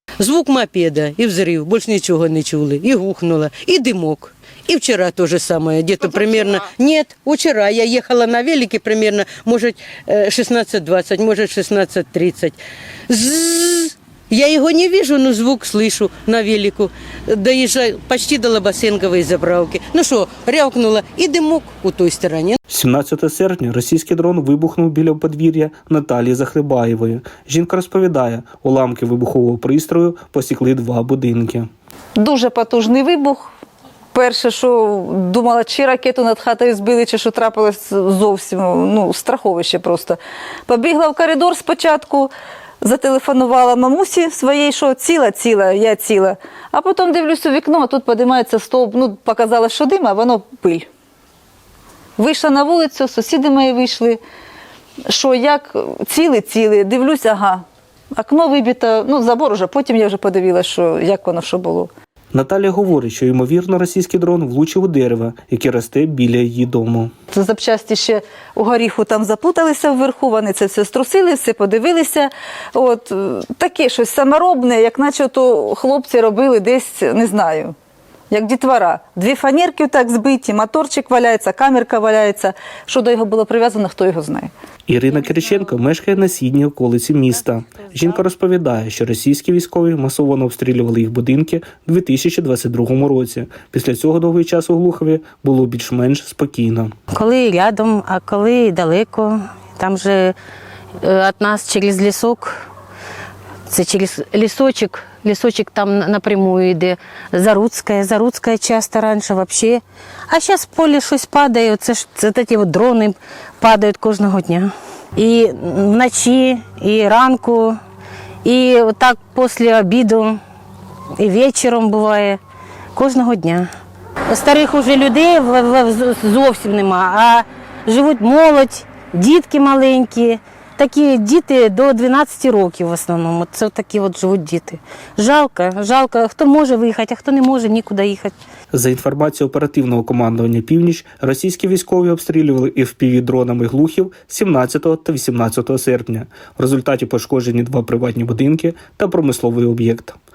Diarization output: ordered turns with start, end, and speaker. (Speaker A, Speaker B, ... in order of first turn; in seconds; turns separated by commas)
Speaker A: 0.2-22.6, Speaker B: 22.7-31.7, Speaker C: 32.2-33.5, Speaker C: 34.1-40.2, Speaker C: 40.7-42.3, Speaker C: 42.8-50.8, Speaker C: 52.2-54.2, Speaker C: 55.1-57.6, Speaker C: 58.2-61.9, Speaker B: 62.3-67.1, Speaker C: 67.4-77.7, Speaker C: 78.3-84.5, Speaker B: 84.9-96.9, Speaker D: 97.1-100.3, Speaker D: 101.0-102.5, Speaker D: 103.7-117.8, Speaker D: 118.4-120.4, Speaker D: 121.2-122.4, Speaker D: 122.9-123.7, Speaker D: 124.3-138.3, Speaker B: 138.7-150.2